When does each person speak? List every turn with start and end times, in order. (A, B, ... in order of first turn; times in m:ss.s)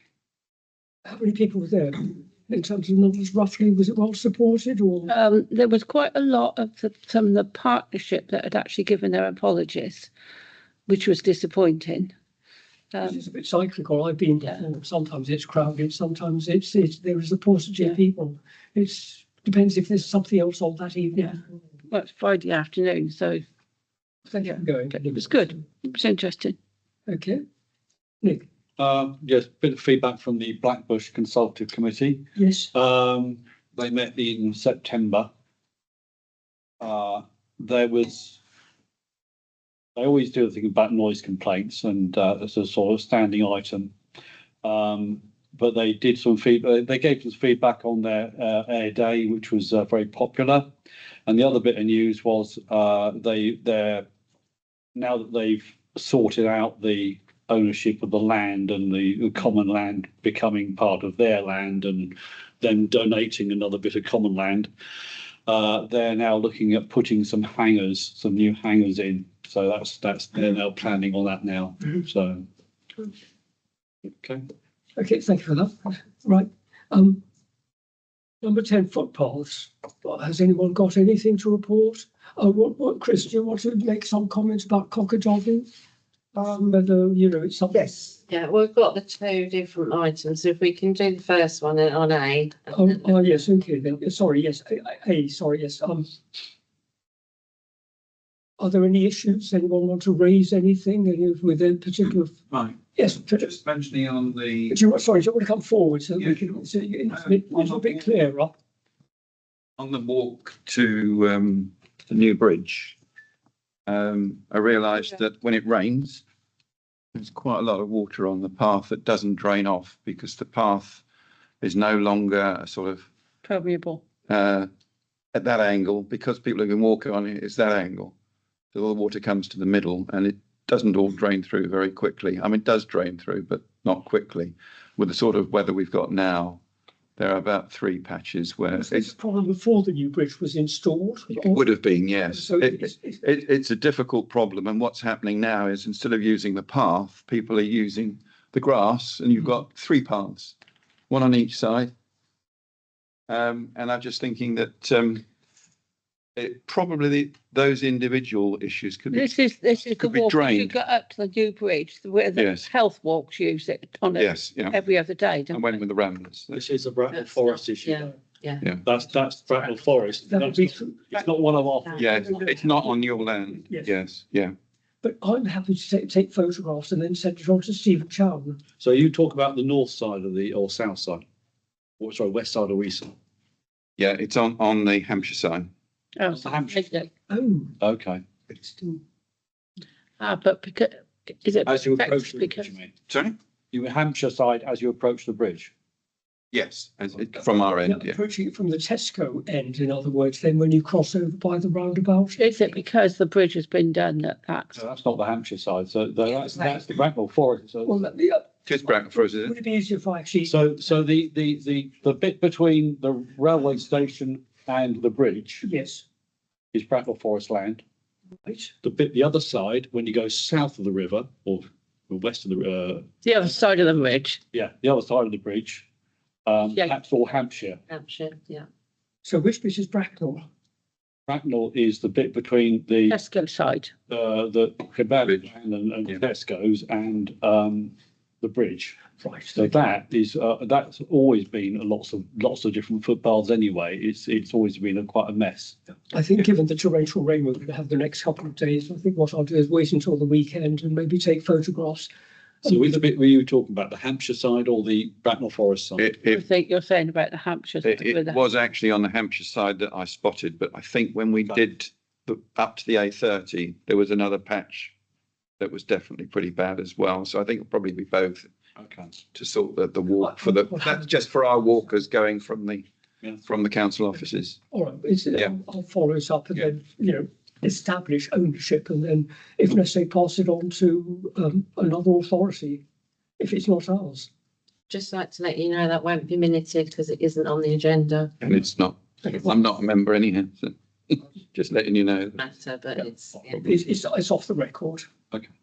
0:01.0-0:05.1 A
0:05.0-0:10.1 B
0:10.9-0:12.1 B
0:12.9-0:13.2 B
0:13.0-0:21.4 A
0:21.9-0:23.4 B
0:24.3-0:25.5 A
0:24.4-0:26.6 B
0:27.1-0:27.4 A
0:28.8-0:35.3 C
0:32.4-0:32.7 A
0:36.8-0:38.4 C
0:40.0-0:43.9 C
0:44.6-0:50.7 C
0:51.3-0:54.1 C
0:54.9-1:04.7 C
1:05.5-1:12.5 C
1:14.2-1:14.4 C
1:15.0-1:17.2 A
1:18.4-1:25.7 A
1:26.3-1:28.2 A
1:28.3-1:33.6 D
1:32.7-1:36.1 A
1:38.6-1:42.3 A
1:42.5-1:44.8 E
1:43.0-1:43.5 A
1:44.7-1:48.5 A
1:46.2-1:48.0 E
1:49.8-1:53.0 E
1:53.8-1:56.2 E
1:57.1-2:01.0 E
2:01.6-2:03.1 E
2:03.4-2:04.0 B
2:04.3-2:04.7 E
2:05.3-2:08.1 E
2:08.7-2:16.6 E
2:17.2-2:19.1 E
2:18.8-2:21.6 A
2:21.4-2:30.5 E
2:22.3-2:23.2 A
2:31.1-2:31.9 E
2:33.3-2:35.2 E
2:36.4-2:40.7 E
2:39.1-2:45.8 B
2:42.4-2:42.7 E
2:44.1-2:44.8 E
2:45.5-2:46.6 E
2:46.5-2:48.1 C
2:47.1-2:48.6 D
2:48.8-2:52.0 C
2:50.3-2:51.1 A
2:52.0-2:54.5 E
2:52.0-2:53.0 A
2:53.5-2:53.9 A
2:55.0-2:58.6 A
2:58.8-3:01.2 C
3:02.0-3:03.1 C
3:04.0-3:05.7 E
3:06.2-3:07.1 B
3:06.3-3:06.8 C
3:07.3-3:07.8 A
3:07.8-3:08.2 C
3:08.5-3:09.0 A
3:10.2-3:12.7 B
3:11.6-3:12.9 C
3:13.1-3:13.4 E
3:13.7-3:15.7 C
3:16.5-3:18.2 E
3:17.8-3:22.4 A
3:22.4-3:24.8 B
3:24.7-3:28.0 C
3:27.8-3:30.5 A
3:28.7-3:29.5 E
3:30.4-3:35.6 C
3:35.6-3:36.0 A
3:36.7-3:37.8 C
3:38.4-3:38.7 A
3:38.8-3:43.1 C
3:43.2-3:44.4 B
3:44.5-3:45.8 C
3:46.4-3:47.8 C
3:46.6-3:46.9 B
3:47.9-3:48.7 D
3:49.2-3:50.4 A
3:51.3-3:53.2 C
3:53.1-3:53.9 B
3:54.1-4:05.8 C
3:59.2-3:59.6 A
4:06.1-4:12.1 A
4:12.6-4:16.1 C
4:16.0-4:16.4 E
4:16.2-4:18.4 B
4:17.8-4:24.9 E
4:25.6-4:28.5 E
4:28.8-4:29.2 C
4:29.3-4:32.8 E
4:30.2-4:31.1 A
4:33.4-4:34.6 E
4:34.7-4:42.8 A
4:43.4-4:44.3 A
4:44.9-4:48.4 D
4:48.4-4:52.4 E
4:52.4-4:53.6 D
4:53.6-4:55.1 A